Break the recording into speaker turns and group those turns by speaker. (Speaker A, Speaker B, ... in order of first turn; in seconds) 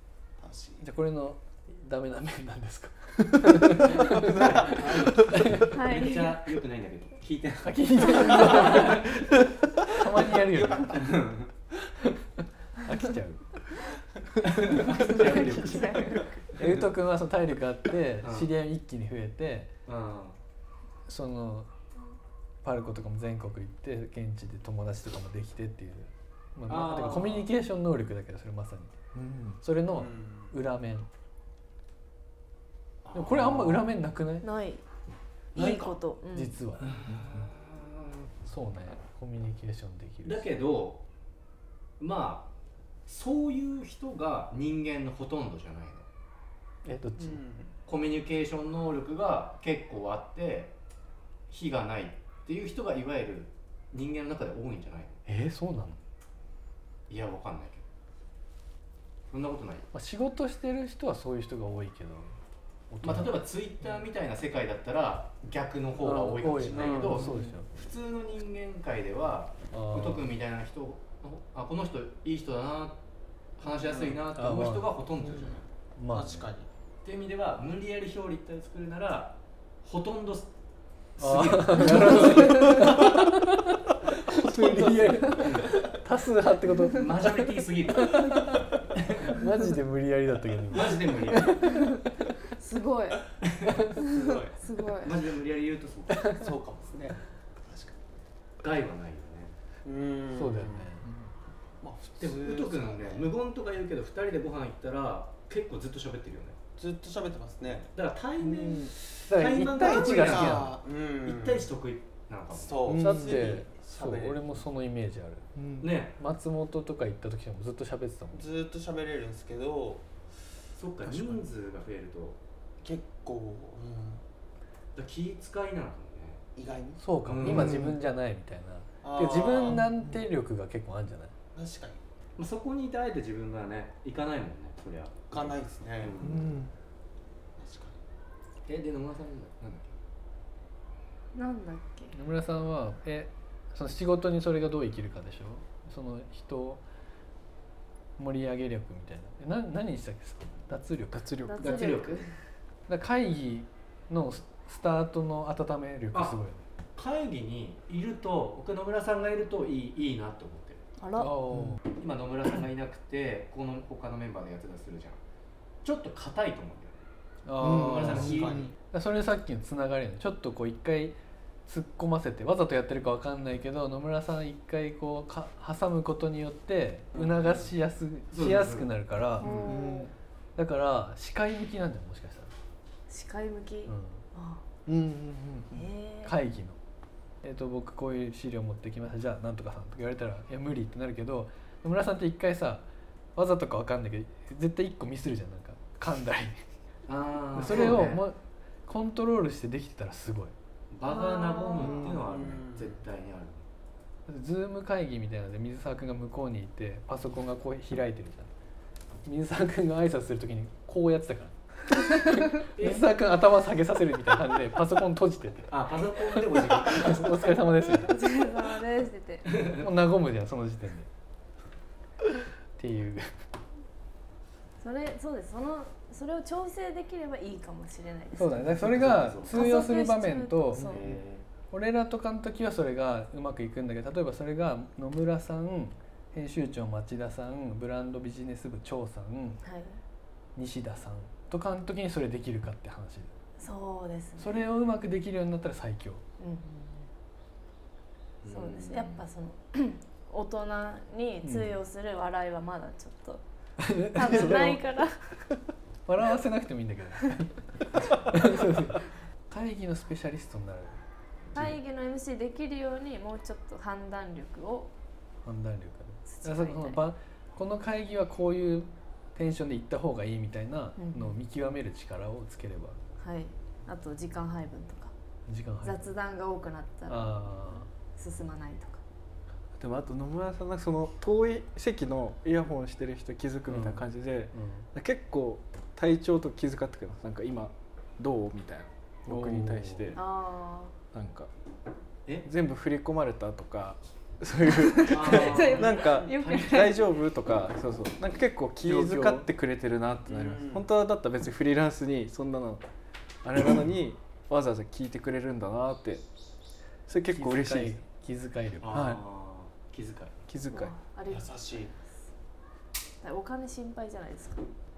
Speaker A: 0.4-0.8, 10.6-11.1, 29.9-30.5, 47.2-47.7, 76.1-76.7, 94.0-94.5, 96.3-98.0, 99.8-100.9, 101.8-103.3, 106.8-107.9, 109.8-111.7, 112.5-114.5, 118.3-120.0, 122.8-124.2, 126.5-127.0, 129.0-129.8, 131.5-132.0, 135.3-136.2, 137.6-137.9, 168.2-168.7, 202.0-203.0, 300.3-300.9, 311.3-311.9
Speaker B: 0.8-5.8, 7.6-9.2, 9.8-11.1, 12.8-13.4, 16.6-19.7, 21.1-21.7, 22.6-28.9, 29.6-31.1, 33.1-34.5, 36.3-37.0, 38.4-40.5, 46.8-47.4, 55.2-56.0, 59.9-62.3, 62.9-63.4, 66.0-67.7, 69.7-70.3, 74.3-74.9, 76.0-76.5, 81.2-91.7, 100.3-101.1, 109.3-110.7, 113.0-115.5, 116.2-118.4, 127.0-131.3, 142.1-146.8, 148.2-151.3, 152.9-156.6, 161.2-161.8, 167.4-171.2, 171.7-179.5, 180.6-182.5, 183.8-184.2, 186.2-186.8, 187.4-196.6, 197.5-200.5, 204.3-208.5, 209.2-215.8, 216.3-218.2, 219.7-221.1, 222.8-223.3, 228.4-231.0, 231.7-239.6, 240.6-243.3, 244.4-246.2, 251.4-251.8, 253.8-254.8, 256.1-257.5, 258.3-261.0, 265.4-273.0, 275.5-276.1, 277.1-277.9, 283.7-284.9, 289.3-290.1, 298.8-299.4, 307.3-309.0
Speaker C: 4.1-9.3, 10.6-11.5, 14.4-16.8, 18.2-18.5, 19.9-20.4, 26.7-27.5, 33.0-33.8, 35.6-35.9, 36.8-38.3, 40.2-41.0, 42.0-42.5, 43.1-46.0, 47.9-50.7, 51.5-55.2, 57.1-57.8, 59.3-59.9, 63.0-73.0, 73.6-75.7, 77.0-80.5, 81.2-83.1, 85.4-85.8, 86.9-89.4, 90.7-91.9, 93.4-93.9, 95.0-96.3, 98.6-99.5, 102.2-106.6, 107.8-112.8, 115.8-116.1, 120.8-122.4, 124.9-126.4, 127.3-127.8, 132.4-136.5, 138.7-139.9, 151.6-152.3, 156.1-156.4, 156.9-160.8, 162.0-165.2, 165.8-167.1, 167.6-168.7, 177.2-177.5, 178.3-178.9, 197.1-198.2, 200.9-203.6, 212.8-213.0, 215.7-217.4, 219.5-219.8, 228.7-229.7, 230.8-231.4, 248.4-249.2, 295.1-296.8, 308.8-310.4
Speaker D: 5.7-6.4, 8.4-8.7, 15.0-16.3, 34.4-34.8, 35.5-36.5, 91.7-92.0, 92.6-93.3, 94.0-95.2, 141.3-142.1, 151.4-152.3, 161.0-161.3, 179.4-180.1, 183.1-184.6, 185.7-186.3, 201.1-202.1, 218.0-219.5, 224.8-228.8, 229.5-231.0, 239.6-240.0, 243.6-244.5, 246.4-247.1, 248.5-253.4, 254.1-255.2, 261.5-264.9, 266.2-267.0, 271.0-271.4, 273.2-275.1, 275.8-277.3, 278.1-279.0, 290.1-290.9, 294.7-297.0, 310.7-311.6, 313.2-314.6
Speaker E: 14.4-16.3, 29.1-29.6, 37.0-37.5, 67.1-67.5, 82.2-82.9, 84.3-85.4, 101.0-101.3, 108.5-108.9, 112.8-113.4, 115.5-115.9, 121.1-121.4, 127.4-128.0, 129.7-130.2, 136.2-136.7, 151.1-151.7, 161.5-161.8, 167.6-168.7, 179.4-180.1, 184.8-185.8, 201.8-202.2, 279.8-290.2, 291.1-291.5, 292.4-302.9, 303.4-306.2, 307.1-308.0, 308.9-309.2, 310.5-311.0